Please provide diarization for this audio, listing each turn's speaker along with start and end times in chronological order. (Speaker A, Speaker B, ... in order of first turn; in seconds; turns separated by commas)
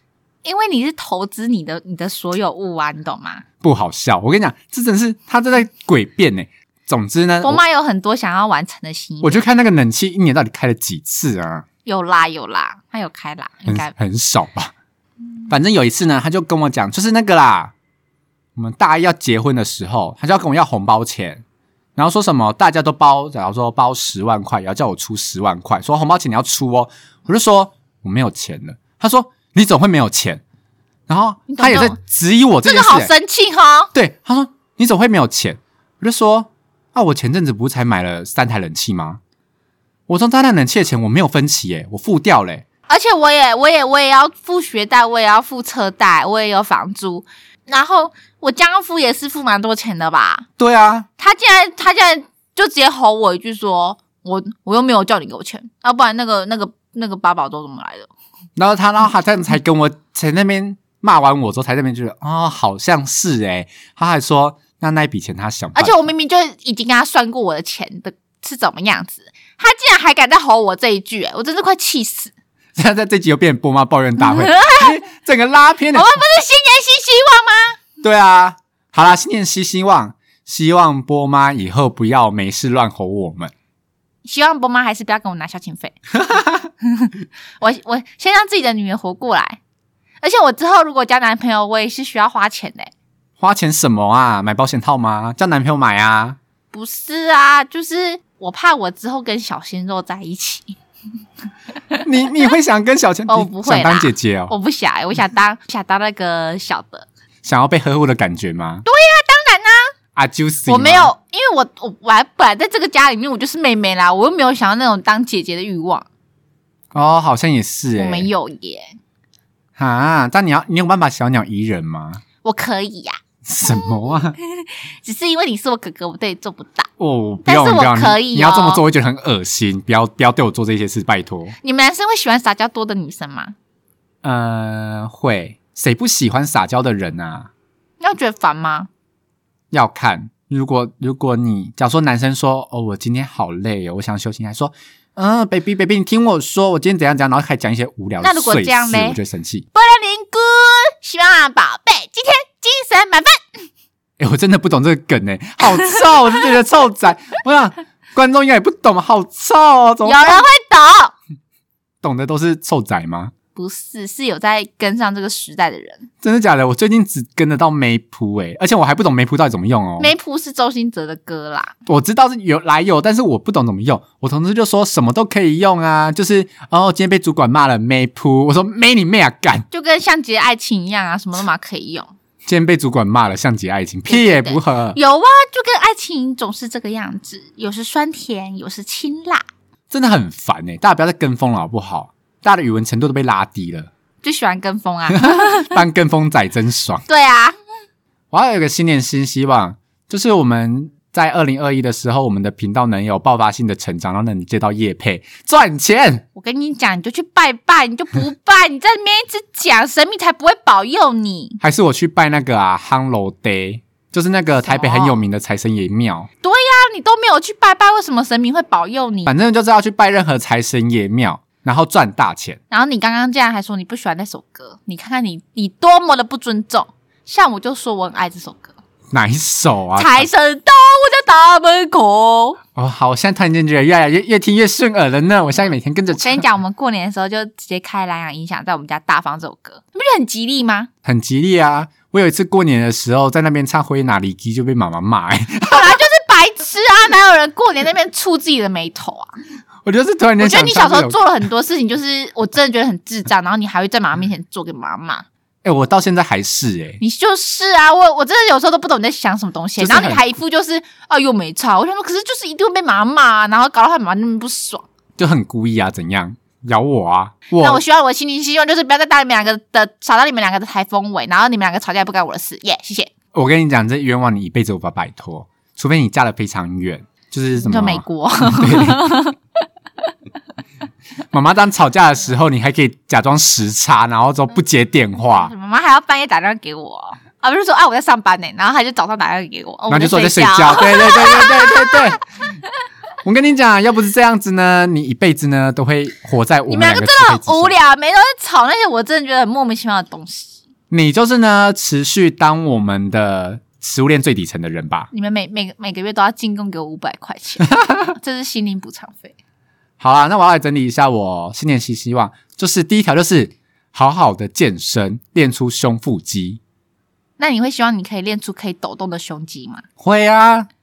Speaker A: 0.4-3.4, Speaker B: 3.6-7.6, Speaker A: 7.4-9.4, Speaker B: 9.2-11.6, Speaker A: 11.8-13.9, Speaker B: 13.7-14.7, Speaker B: 15.5-17.7, Speaker B: 18.6-21.4, Speaker B: 21.9-30.4, Speaker B: 31.1-33.1, Speaker A: 31.5-32.0, Speaker A: 32.6-33.9, Speaker B: 33.9-39.2, Speaker B: 40.1-42.6, Speaker A: 42.9-50.5, Speaker B: 50.6-51.1, Speaker A: 51.2-58.1, Speaker B: 58.5-66.0, Speaker A: 65.7-72.3, Speaker B: 72.8-76.1, Speaker A: 74.2-75.0, Speaker A: 75.9-77.8, Speaker B: 78.0-83.5, Speaker A: 84.2-89.6, Speaker B: 86.3-86.6, Speaker A: 90.2-92.9, Speaker B: 93.4-96.4, Speaker A: 96.7-100.8, Speaker B: 102.0-104.5, Speaker A: 103.3-107.1, Speaker B: 107.4-108.8, Speaker A: 108.8-109.9, Speaker B: 110.2-111.1, Speaker A: 110.7-116.1, Speaker B: 116.9-118.3, Speaker A: 117.9-119.0, Speaker B: 119.8-122.2, Speaker A: 122.4-123.9, Speaker B: 123.5-124.3, Speaker A: 124.4-126.9, Speaker B: 127.0-131.5, Speaker A: 127.4-128.8, Speaker A: 131.6-133.5, Speaker B: 134.2-137.5, Speaker A: 138.0-138.9, Speaker B: 139.7-149.7, Speaker A: 148.2-149.2, Speaker A: 149.7-153.6, Speaker B: 154.2-160.4, Speaker A: 160.0-161.1, Speaker B: 162.0-163.3, Speaker A: 163.5-166.1, Speaker B: 166.2-170.1, Speaker A: 170.0-171.7, Speaker B: 171.8-179.7, Speaker A: 179.7-182.1, Speaker B: 182.4-185.0, Speaker A: 184.1-189.4, Speaker B: 189.9-193.9, Speaker A: 194.2-195.7, Speaker B: 195.1-197.0, Speaker A: 197.1-197.5, Speaker B: 198.3-206.2, Speaker A: 206.3-211.6, Speaker B: 211.6-216.3, Speaker A: 214.7-215.2, Speaker A: 216.4-219.3, Speaker B: 219.2-222.6, Speaker A: 222.7-228.7, Speaker B: 229.1-230.3, Speaker A: 229.9-232.6, Speaker B: 232.8-236.4, Speaker A: 236.1-240.9, Speaker B: 241.0-246.0, Speaker A: 245.6-249.3, Speaker B: 249.8-251.2, Speaker A: 250.4-255.2, Speaker B: 255.6-257.0, Speaker A: 257.0-264.9, Speaker B: 259.8-260.2, Speaker B: 265.2-267.8, Speaker A: 267.6-273.1, Speaker B: 273.3-279.1, Speaker A: 277.6-279.4, Speaker B: 281.3-285.5, Speaker A: 285.2-292.2, Speaker B: 289.9-292.2, Speaker B: 293.2-297.7, Speaker A: 296.7-300.6, Speaker B: 300.9-305.1, Speaker A: 305.1-309.3, Speaker B: 310.0-316.6, Speaker A: 317.4-319.8, Speaker B: 320.0-320.7